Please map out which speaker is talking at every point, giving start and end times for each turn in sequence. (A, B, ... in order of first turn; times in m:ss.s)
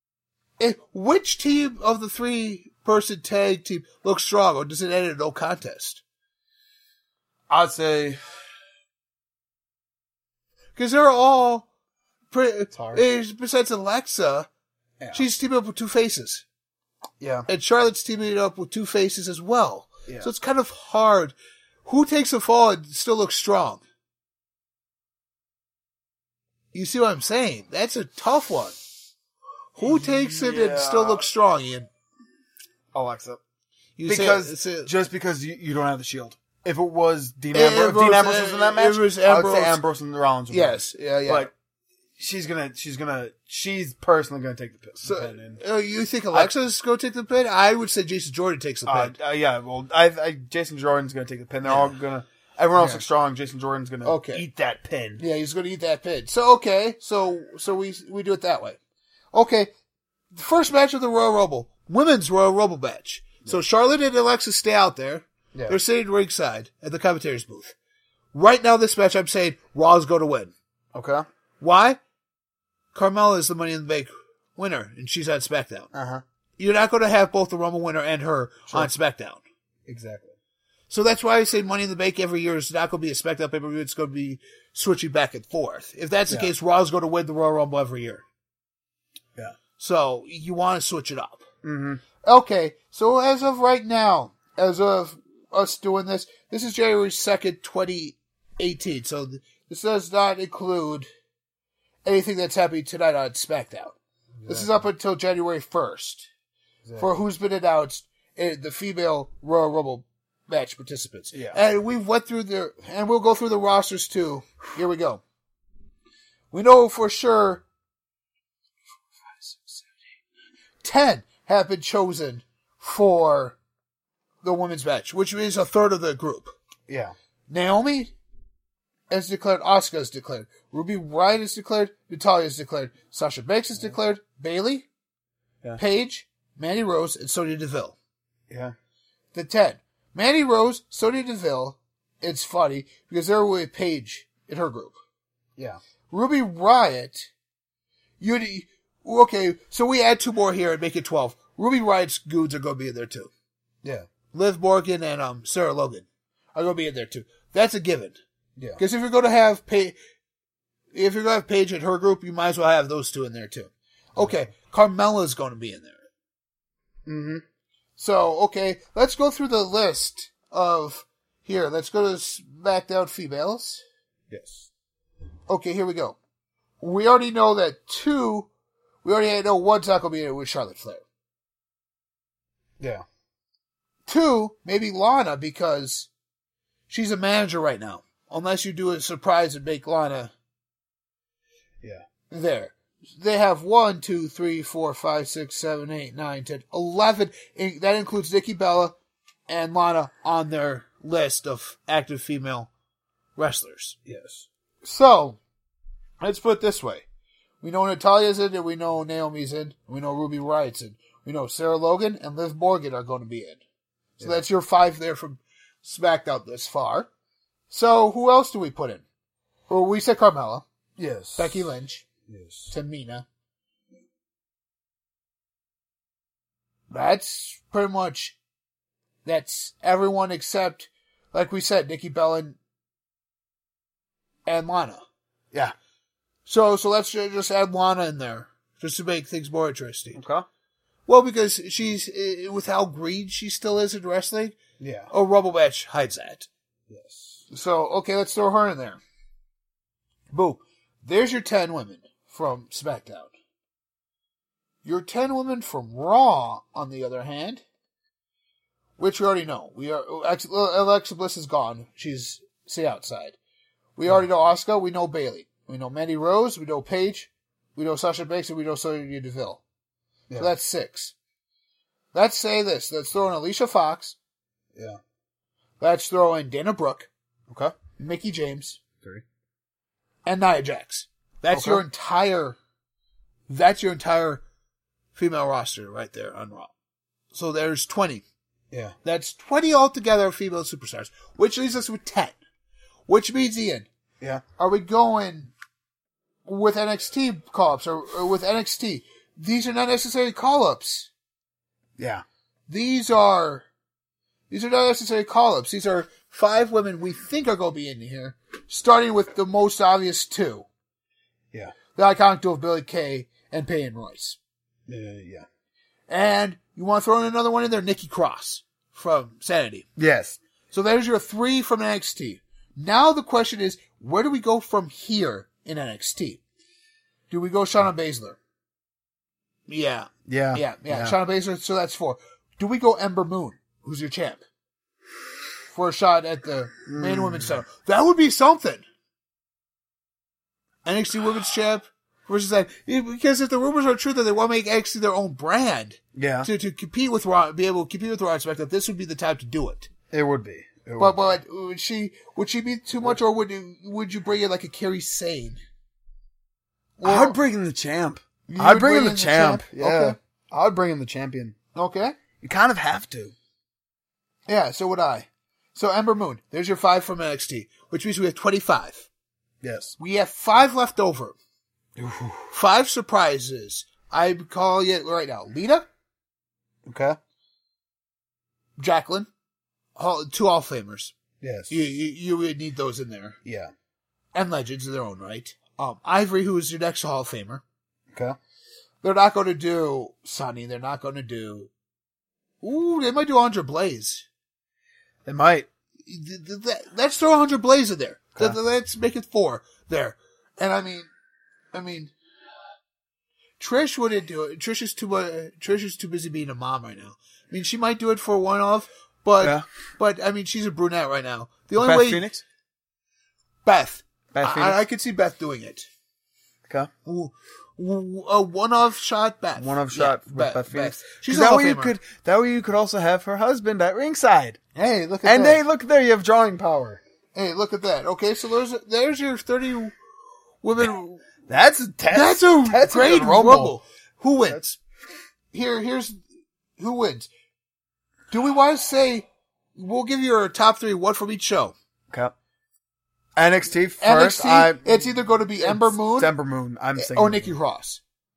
0:00.6-0:06.0 A
0:07.5-0:08.2 B
0:10.8-0:11.7 A
0:12.3-0:14.5 A
0:12.7-0:13.0 B
0:15.1-0:16.4 A
0:17.2-0:17.5 B
0:17.5-0:23.8 A
0:26.7-0:28.8 A
0:29.8-0:31.9 A
0:29.8-0:31.2 B
0:32.9-0:33.4 B
0:34.0-0:34.9 A
0:34.1-0:41.5 B
0:37.5-0:39.8 A
0:40.5-0:41.5 A
0:42.2-0:45.6 B
0:45.0-0:49.1 A
0:48.8-0:55.2 B
0:51.6-0:52.0 A
0:52.8-0:53.0 A
0:54.0-0:54.4 A
0:55.2-0:58.8 A
0:59.3-0:59.7 A
1:00.3-1:07.8 A
1:08.3-1:10.5 A
1:10.9-1:11.2 B
1:11.6-1:12.0 A
1:12.9-1:15.9 A
1:15.9-1:16.2 B
1:16.6-1:19.4 A
1:19.9-1:20.3 B
1:20.9-1:28.2 A
1:29.8-1:31.5 A
1:31.6-1:32.0 B
1:32.2-1:41.1 A
1:42.0-1:46.3 A
1:44.4-1:44.8 B
1:47.0-1:55.2 A
1:51.3-1:51.6 B
1:56.5-1:57.6 A
1:59.5-1:59.8 A
2:00.8-2:03.6 A
2:04.4-2:06.5 A
2:06.9-2:07.1 B
2:07.5-2:08.1 A
2:09.1-2:14.9 A
2:15.8-2:18.0 A
2:18.5-2:18.7 B
2:19.3-2:25.0 A
2:26.1-2:27.3 A
2:28.2-2:33.3 A
2:34.3-2:38.2 A
2:38.8-2:40.0 A
2:40.9-2:46.0 A
2:47.0-2:47.4 B
2:48.0-2:53.8 A
2:54.3-2:54.7 B
2:55.5-2:56.2 A
2:56.8-2:58.5 A
2:59.0-3:01.0 A
3:02.8-3:03.0 B
3:04.0-3:06.1 A
3:06.9-3:10.3 A
3:12.3-3:19.0 A
3:19.5-3:22.7 A
3:23.4-3:24.0 A
3:24.0-3:24.4 B
3:24.8-3:25.4 A
3:26.2-3:27.0 A
3:27.6-3:33.6 A
3:34.2-3:37.1 A
3:37.7-3:39.0 A
3:39.7-3:40.6 A
3:41.0-3:41.7 B
3:41.4-3:42.1 A
3:42.3-3:42.7 B
3:42.7-3:43.2 A
3:46.9-3:48.4 A
3:49.2-3:52.6 A
3:54.4-3:55.0 A
3:56.4-4:00.2 A
4:00.2-4:00.4 B
4:01.1-4:04.6 A
4:04.8-4:05.1 B
4:05.1-4:06.5 A
4:06.9-4:07.4 B
4:07.5-4:09.0 A
4:10.3-4:13.3 A
4:14.8-4:17.6 A
4:19.0-4:23.4 A
4:24.0-4:29.6 A
4:30.4-4:31.1 A
4:32.1-4:34.2 A
4:35.8-4:37.1 A
4:37.5-4:37.7 B
4:38.0-4:38.8 A
4:40.2-4:42.6 A
4:41.5-4:41.8 B
4:43.5-4:44.4 A
4:45.1-4:46.7 A
4:47.3-4:48.2 A
4:49.0-4:52.4 A
4:53.1-4:53.9 A
4:54.6-4:55.5 A
4:56.4-5:01.1 A
5:02.0-5:02.2 B
5:02.7-5:03.7 A
5:04.5-5:10.7 A
5:11.9-5:14.4 A
5:14.9-5:15.4 B
5:16.1-5:19.8 A
5:20.0-5:20.4 B
5:20.7-5:26.4 A
5:27.3-5:28.4 A
5:29.7-5:34.4 A
5:30.3-5:31.2 B
5:35.7-5:38.8 A
5:36.9-5:37.6 B
5:40.8-5:49.9 A
5:46.2-5:46.5 B
5:50.1-5:51.3 B
5:51.0-5:55.6 A
5:57.0-5:57.4 A
5:57.0-6:01.6 B
5:58.5-6:00.2 A
6:01.7-6:02.2 A
6:02.4-6:03.3 B
6:04.5-6:09.1 A
6:09.6-6:09.9 B
6:10.0-6:11.4 A
6:12.0-6:12.5 B
6:12.5-6:15.9 A
6:16.8-6:17.2 B
6:18.8-6:19.3 A
6:20.0-6:21.1 A
6:21.4-6:21.7 B
6:21.7-6:23.4 A
6:23.4-6:23.7 B
6:24.3-6:27.6 A
6:29.0-6:31.7 A
6:32.6-6:34.2 A
6:35.2-6:35.7 B
6:36.0-6:41.1 A
6:41.7-6:42.1 A
6:43.6-6:52.3 A
6:51.8-6:52.4 B
6:53.6-6:55.9 A
6:54.3-6:54.8 B
6:57.0-7:01.9 A
6:59.6-7:04.6 B
7:04.7-7:05.6 A
7:05.2-7:07.0 B
7:07.3-7:09.9 A
7:10.6-7:11.3 A
7:11.5-7:13.8 B
7:12.1-7:14.8 A
7:15.5-7:16.2 A
7:16.8-7:17.3 A
7:18.3-7:21.7 A
7:23.4-7:27.5 B
7:24.0-7:26.3 A
7:27.0-7:28.0 A